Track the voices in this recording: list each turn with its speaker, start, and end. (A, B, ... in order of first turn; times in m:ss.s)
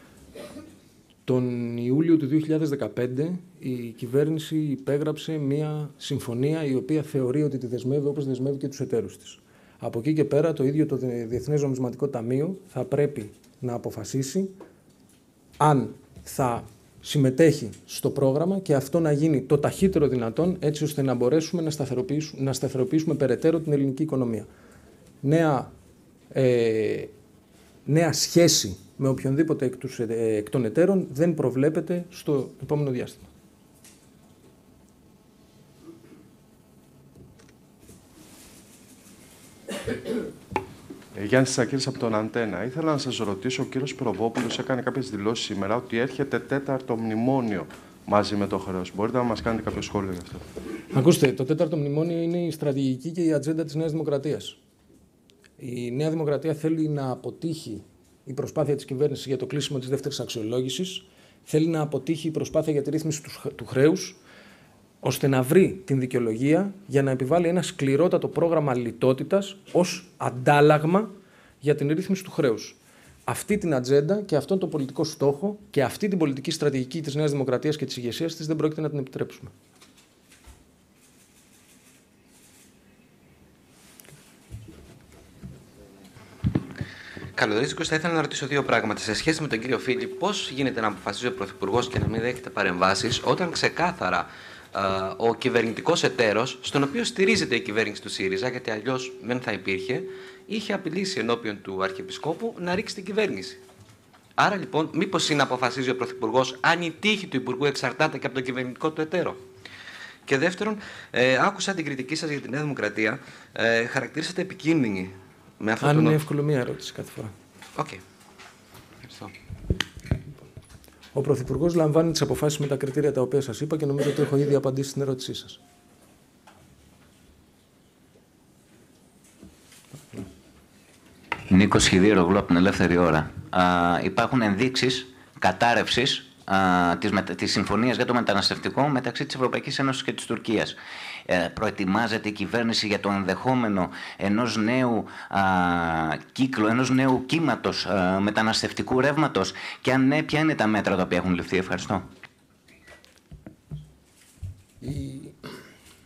0:01.3-0:14.5 A
0:15.6-0:24.5 A
0:25.2-0:25.7 A
0:26.3-0:27.1 A
0:27.8-0:33.3 A
0:41.1-0:50.4 B
0:50.9-0:54.6 A
0:55.6-1:04.2 A
1:05.0-1:11.1 A
1:11.6-1:19.5 A
1:27.3-1:43.6 C
1:44.4-1:49.4 C
1:50.3-1:56.2 C
1:55.8-1:57.3 A
1:57.8-1:58.0 C
1:59.0-1:59.3 C
2:01.1-2:05.6 A
2:11.5-2:32.0 D
2:34.8-2:35.3 A